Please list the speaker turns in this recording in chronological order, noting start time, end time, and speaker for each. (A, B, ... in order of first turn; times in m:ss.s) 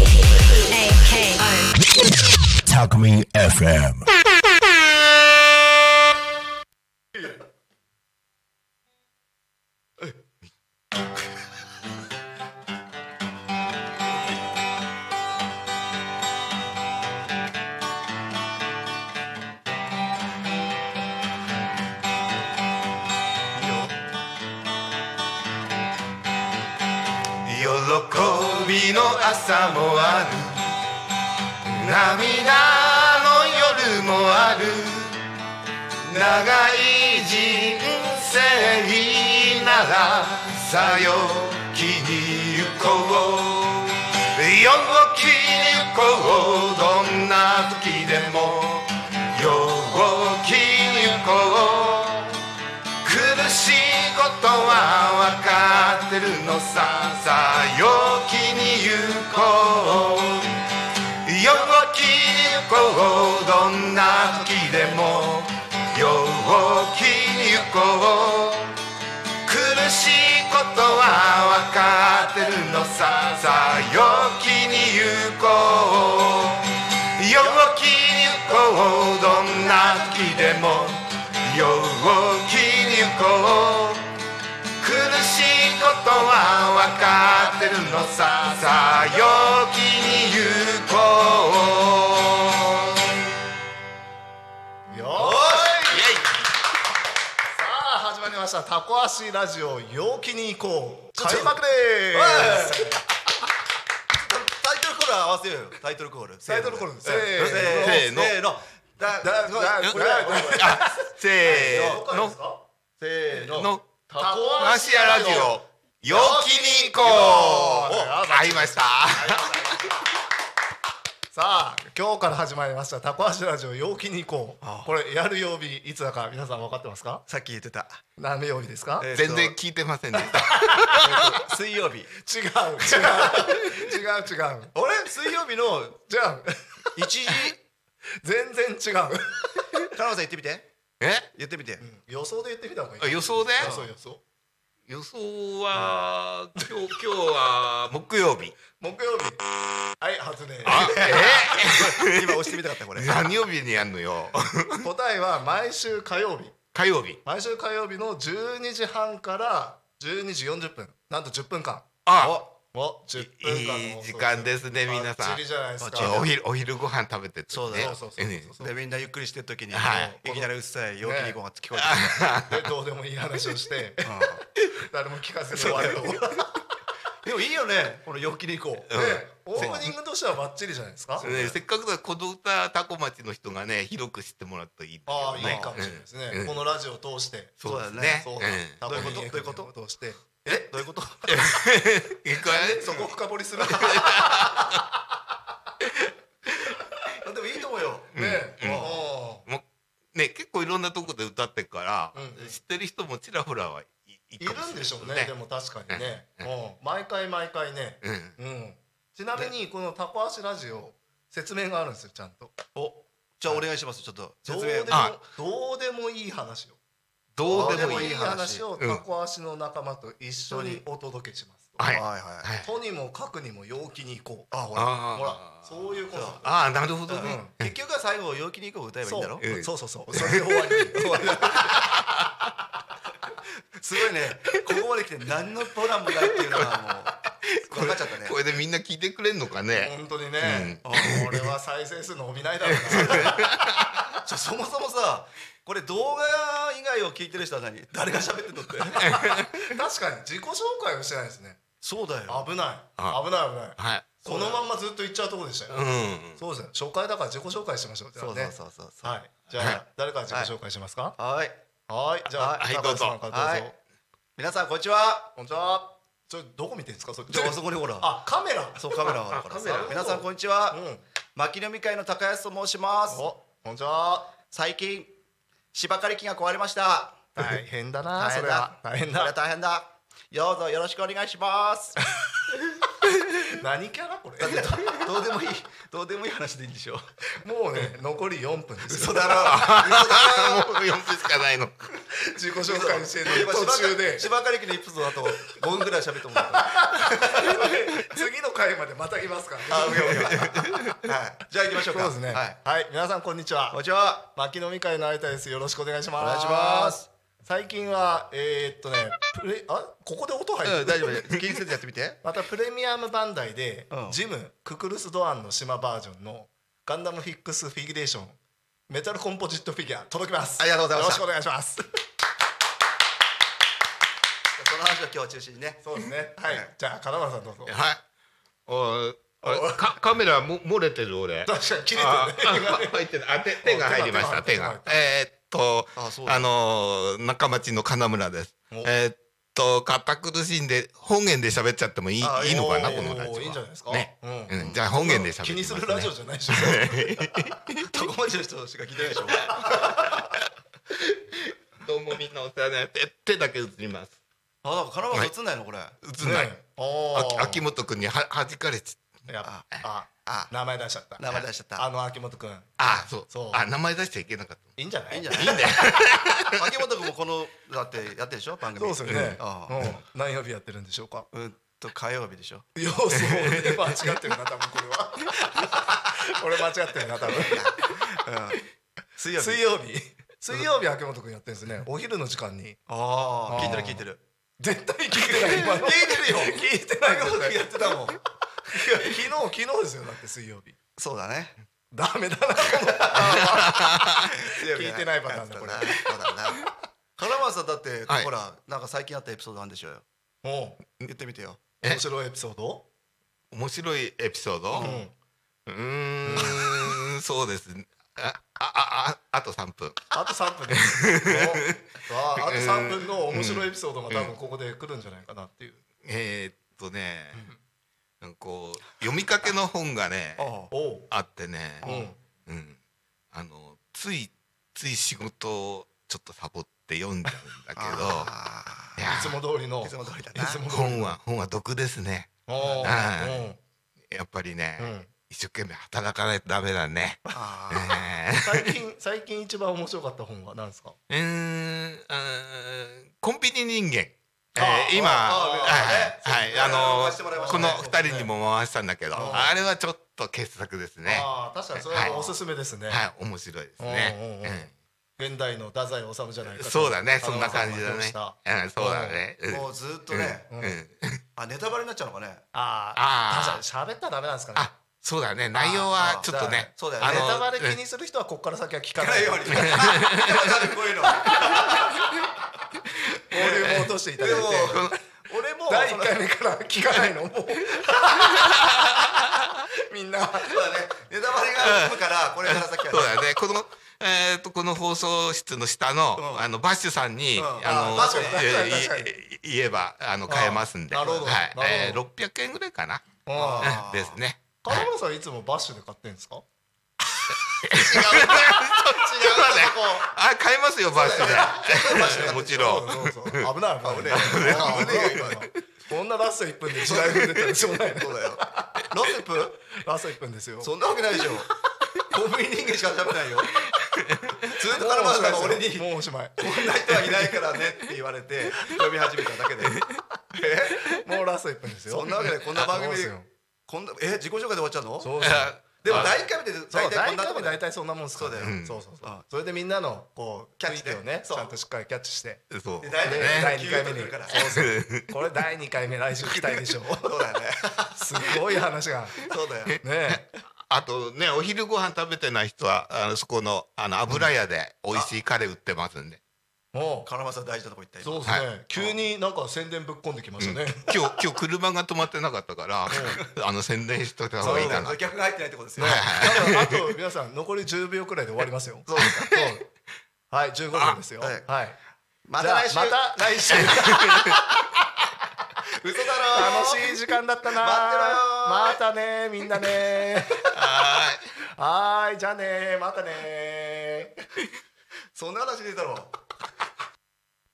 0:00.7-0:01.7 A
0:02.6-0:04.1 A
0:23.6-0:23.9 B
0:27.4-0:30.7 C
0:31.7-0:35.2 C
0:36.0-0:52.4 C
0:53.0-1:00.6 C
1:01.2-1:08.8 C
1:09.4-1:24.1 C
1:24.8-1:33.3 C
1:34.9-1:36.1 D
1:35.2-1:36.0 B
1:35.8-1:36.3 C
1:37.5-1:43.0 D
1:41.2-1:41.6 B
1:42.1-1:43.0 B
1:44.2-1:50.9 B
1:46.4-1:48.0 D
1:47.6-1:48.4 C
1:49.2-1:52.6 D
1:49.8-1:52.4 C
1:51.4-1:52.0 B
1:53.0-1:55.6 B
1:53.3-1:59.9 D
1:53.5-1:53.8 C
1:54.6-1:59.5 C
1:57.2-1:58.1 B
1:59.2-1:59.5 B
2:01.3-2:07.2 D
2:04.6-2:04.9 B
2:07.3-2:08.0 B
2:08.2-2:09.1 D
2:09.0-2:09.6 B
2:09.1-2:11.4 C
2:10.1-2:11.0 D
2:11.0-2:12.1 B
2:12.2-2:14.7 D
2:14.7-2:16.0 B
2:16.0-2:17.5 D
2:16.9-2:17.6 B
2:18.2-2:19.8 D
2:19.9-2:20.7 B
2:21.0-2:21.3 C
2:21.3-2:21.8 B
2:21.8-2:24.2 D
2:23.0-2:23.7 C
2:23.6-2:23.9 B
2:24.9-2:28.6 C
2:28.8-2:29.4 D
2:30.0-2:31.7 D
2:30.6-2:32.4 C
2:30.6-2:33.3 B
2:32.9-2:34.9 C
2:34.8-2:36.6 D
2:36.7-2:37.2 C
2:37.2-2:41.9 D
2:42.0-2:42.4 C
2:42.2-2:42.5 B
2:42.7-2:46.3 D
2:43.2-2:45.4 C
2:45.8-2:46.3 B
2:45.9-2:48.5 C
2:47.5-2:48.0 B
2:47.8-2:48.7 D
2:48.6-2:52.3 B
2:49.7-2:50.1 C
2:49.8-2:50.5 D
2:51.0-2:51.4 D
2:51.7-2:52.7 C
2:52.5-2:56.6 D
2:54.0-2:54.4 B
2:55.5-2:56.2 B
2:57.2-2:58.9 B
2:58.9-2:59.9 C
2:58.9-3:01.3 D
2:59.5-2:59.9 B
3:01.2-3:01.6 B
3:01.2-3:06.6 C
3:05.1-3:07.6 D
3:05.4-3:05.8 B
3:07.6-3:09.2 C
3:07.6-3:09.7 B
3:08.2-3:10.6 D
3:10.4-3:11.5 B
3:11.3-3:14.8 C
3:12.4-3:14.8 D
3:17.2-3:19.0 B
3:18.1-3:25.3 C
3:18.2-3:19.5 D
3:22.1-3:22.5 D
3:24.4-3:32.5 D
3:25.9-3:26.5 C
3:28.0-3:28.4 C
3:32.7-3:35.1 B
3:34.4-3:36.8 D
3:34.9-3:35.2 C
3:37.3-3:38.2 C
3:37.4-3:42.0 D
3:37.5-3:38.6 B
3:38.8-3:39.0 C
3:40.5-3:40.8 B
3:41.8-3:42.7 C
3:41.9-3:42.5 B
3:42.6-3:46.5 D
3:44.5-3:44.9 B
3:44.7-3:47.7 C
3:46.1-3:46.5 B
3:47.1-3:49.5 B
3:47.2-3:47.5 D
3:49.0-3:51.2 D
3:49.4-3:52.5 C
3:51.0-3:51.9 B
3:53.8-3:58.4 B
3:57.2-4:01.5 C
3:59.7-4:03.5 D
4:00.8-4:01.4 B
4:02.6-4:04.0 C
4:02.9-4:03.5 B
4:04.2-4:09.2 B
4:09.0-4:11.6 D
4:09.1-4:09.7 C
4:11.8-4:12.5 B
4:12.3-4:21.2 D
4:13.8-4:14.1 C
4:14.2-4:14.6 B
4:15.7-4:16.4 C
4:18.2-4:20.5 B
4:21.2-4:21.6 B
4:21.9-4:23.7 D
4:22.4-4:22.7 B
4:22.6-4:23.2 C
4:23.3-4:23.7 B
4:24.4-4:25.3 B
4:25.4-4:29.0 D
4:27.3-4:28.2 B
4:28.8-4:30.8 B
4:29.1-4:30.0 C
4:29.7-4:31.0 D
4:31.3-4:33.2 B
4:33.1-4:34.3 D
4:34.5-4:35.1 B
4:35.7-4:37.6 B
4:37.4-4:39.3 D
4:38.2-4:42.0 B
4:43.5-4:44.8 D
4:44.4-4:47.1 B
4:47.4-4:49.5 D
4:48.8-4:50.9 B
4:49.2-4:51.9 C
4:52.1-4:54.3 D
4:52.6-4:57.6 B
4:56.5-5:01.0 D
4:59.7-5:02.6 B
5:01.9-5:11.1 D
5:03.7-5:04.3 B
5:06.2-5:07.1 B
5:10.6-5:12.2 B
5:12.2-5:18.4 D
5:13.9-5:14.2 B
5:18.9-5:21.8 D
5:20.6-5:21.2 B
5:24.6-5:25.8 B
5:25.8-5:27.7 D
5:26.4-5:26.7 B
5:27.6-5:28.0 C
5:28.7-5:47.9 C
5:29.4-5:29.8 D
5:31.4-5:33.0 D
5:33.6-5:34.9 D
5:36.0-5:36.5 B
5:42.2-5:43.2 B
5:42.5-5:47.3 D
5:44.6-5:44.8 B
5:47.8-5:50.3 B
5:50.9-5:54.2 C
5:54.6-5:56.0 B
5:56.0-5:56.5 C
5:56.2-5:57.6 D
5:57.1-5:59.2 C
5:59.3-6:03.6 D
6:00.2-6:00.5 B
6:01.2-6:01.8 B
6:02.8-6:04.8 C
6:04.8-6:05.5 D
6:05.1-6:06.0 B
6:05.3-6:06.6 C
6:06.5-6:09.9 B
6:08.8-6:11.3 D
6:09.1-6:09.3 C
6:11.3-6:12.6 B
6:12.8-6:17.9 D
6:13.3-6:13.7 C
6:17.3-6:19.6 B
6:19.4-6:22.8 D
6:22.9-6:24.2 B
6:23.5-6:24.0 D
6:24.6-6:28.0 D
6:25.1-6:28.2 B
6:28.7-6:29.3 B
6:28.8-6:30.8 D
6:31.0-6:31.6 B
6:31.9-6:36.0 D
6:33.0-6:36.6 B
6:33.1-6:34.3 C
6:37.2-6:40.0 B
6:40.4-6:40.8 D
6:41.0-6:41.6 B
6:41.8-6:42.8 D
6:43.5-6:45.0 C
6:44.7-6:45.0 B
6:44.8-6:45.1 D
6:45.7-6:50.0 C
6:46.2-6:46.7 D
6:50.1-6:55.8 D
6:50.7-6:51.8 C
6:52.4-6:54.3 C
6:56.0-6:57.5 C
6:58.2-7:00.5 C
7:00.4-7:00.7 B
7:00.7-7:01.1 D
7:01.1-7:01.9 C
7:01.8-7:02.1 B
7:01.8-7:02.2 D
7:02.4-7:02.8 C
7:03.3-7:08.3 C
7:07.8-7:09.0 B
7:09.0-7:09.4 C
7:09.0-7:11.2 D
7:09.8-7:10.6 B
7:10.7-7:13.5 C
7:12.4-7:13.6 D
7:12.6-7:13.0 B
7:14.1-7:18.8 C
7:14.8-7:15.1 D
7:17.3-7:18.0 B
7:18.4-7:21.0 D
7:21.1-7:32.1 C
7:24.6-7:25.0 D
7:24.9-7:27.9 B
7:27.3-7:28.3 D
7:29.1-7:29.5 D
7:29.2-7:29.5 B
7:31.0-7:33.0 D
7:32.0-7:32.4 B
7:32.9-7:34.7 C
7:33.8-7:39.2 D
7:36.5-7:41.2 C
7:39.5-7:40.5 B
7:40.5-7:40.8 D
7:41.4-7:42.4 B
7:42.5-7:44.7 D
7:42.9-7:43.6 C
7:44.5-7:47.8 C
7:45.6-7:47.4 B
7:46.2-7:50.0 D
7:49.0-7:52.0 B
7:49.5-7:50.4 C
7:51.1-7:52.0 D
7:51.8-7:52.1 C
7:53.2-7:54.9 D
7:53.3-7:56.2 B
7:53.6-7:55.0 C
7:55.7-7:58.9 D
7:58.2-7:58.5 C
7:59.5-8:00.6 D
8:00.4-8:03.3 B
8:01.6-8:13.0 C
8:06.2-8:06.5 B
8:07.4-8:08.4 B
8:07.6-8:09.1 D
8:10.3-8:12.0 D
8:13.2-8:13.8 D
8:13.3-8:14.2 B
8:13.6-8:14.9 C
8:14.6-8:16.4 D
8:17.6-8:23.5 C
8:17.8-8:18.7 D
8:19.1-8:20.0 B
8:19.3-8:19.7 D
8:20.9-8:22.8 B
8:21.0-8:21.4 D
8:21.9-8:28.8 D
8:23.8-8:25.5 B
8:24.1-8:25.5 C
8:26.8-8:29.6 B
8:26.9-8:27.4 C
8:29.7-8:30.7 D
8:30.6-8:31.5 B
8:32.1-8:33.6 B
8:34.0-8:34.4 C
8:34.5-8:35.8 B
8:34.6-8:36.4 D
8:36.4-8:39.8 B
8:39.7-8:40.0 C
8:40.3-8:41.0 B
8:40.9-8:43.3 D
8:41.9-8:43.1 B
8:43.7-8:45.1 B
8:45.0-8:46.2 D
8:45.2-8:46.2 C
8:45.8-8:47.6 B
8:46.7-8:52.4 D
8:48.2-8:49.2 B
8:48.4-8:48.8 C
8:50.6-8:51.5 B
8:52.5-8:53.6 C
8:52.8-8:54.4 B
8:53.0-8:57.1 D
8:54.3-8:55.2 C
8:57.0-8:58.2 B
8:57.9-8:59.2 D
8:59.2-8:59.8 B
8:59.8-9:00.2 D
9:00.1-9:06.2 C
9:06.7-9:07.1 D
9:07.0-9:09.0 B
9:08.0-9:10.9 D
9:10.4-9:15.0 C
9:12.9-9:13.2 D
9:12.9-9:13.2 B
9:14.4-9:14.9 D
9:14.4-9:16.7 B
9:15.8-9:16.8 C
9:15.8-9:19.7 D
9:18.8-9:19.4 B
9:19.0-9:19.5 C
9:20.3-9:21.8 D
9:20.7-9:21.0 C
9:21.2-9:21.5 B
9:22.2-9:24.4 B
9:22.4-9:24.4 D
9:25.8-9:27.1 B
9:26.3-9:30.4 D
9:27.6-9:28.8 B
9:30.5-9:31.2 C
9:31.6-9:34.2 D
9:35.1-9:36.1 B